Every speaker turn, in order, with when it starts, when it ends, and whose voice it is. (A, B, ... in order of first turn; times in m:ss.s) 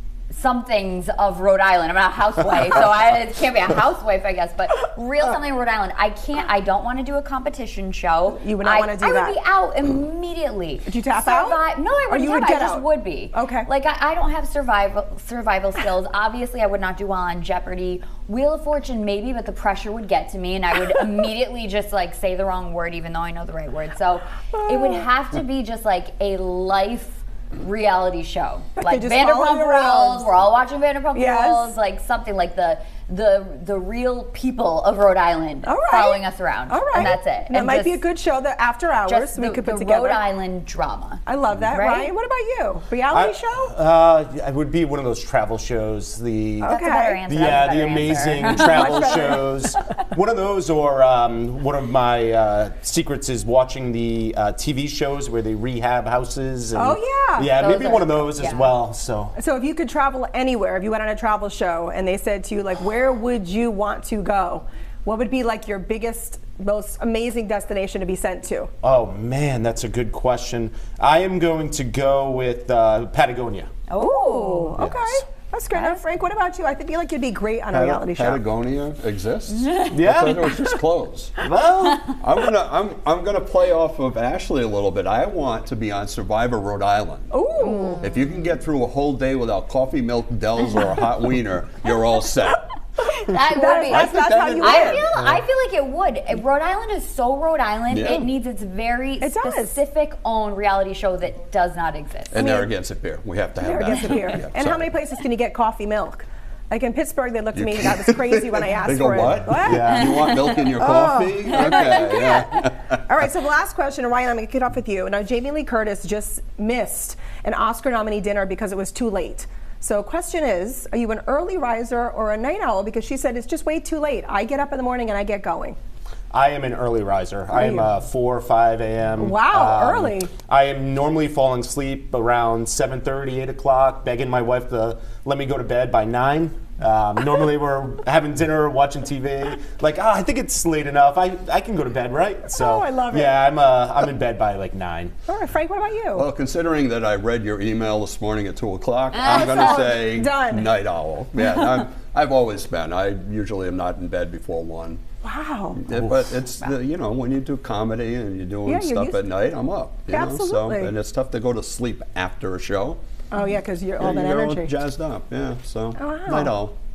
0:00.3-0:38.0 A
0:08.4-0:09.4 B
0:10.8-0:13.7 B
0:24.5-0:25.0 B
0:28.8-0:30.3 B
0:31.1-0:31.7 B
0:35.6-0:40.2 B
0:39.1-0:42.1 A
0:41.2-0:43.7 B
0:43.1-0:46.7 C
0:46.6-0:47.2 B
0:46.6-0:49.5 A
0:47.2-0:59.3 C
0:48.4-0:49.5 B
0:56.7-0:57.5 B
0:57.5-0:58.7 A
0:59.4-1:08.7 B
1:08.8-1:13.7 C
1:13.9-1:14.8 A
1:14.0-1:18.4 B
1:17.7-1:21.4 D
1:19.5-1:20.0 A
1:19.9-1:20.5 C
1:21.4-1:22.2 C
1:22.2-1:27.3 D
1:27.3-1:28.0 B
1:27.6-1:28.1 A
1:28.0-1:32.6 D
1:33.2-1:35.0 B
1:33.2-1:42.5 A
1:33.8-1:35.2 D
1:37.9-1:38.3 D
1:39.2-1:39.8 B
1:42.3-1:44.8 D
1:42.3-1:42.7 B
1:43.6-2:05.8 B
1:47.5-1:53.0 D
1:49.6-1:50.1 C
1:50.1-1:50.6 A
1:51.6-1:52.2 A
2:06.3-2:25.1 C
2:07.5-2:07.9 B
2:09.2-2:10.3 B
2:22.5-2:23.4 B
2:25.3-2:26.3 B
2:26.1-2:35.0 D
2:29.1-2:29.9 A
2:29.2-2:30.7 B
2:31.4-2:31.8 A
2:35.2-2:35.8 B
2:35.8-2:43.0 D
2:35.9-2:36.3 C
2:38.6-2:39.3 B
2:40.1-2:40.9 B
2:43.3-2:44.7 B
2:44.0-2:46.7 D
2:46.0-2:46.5 B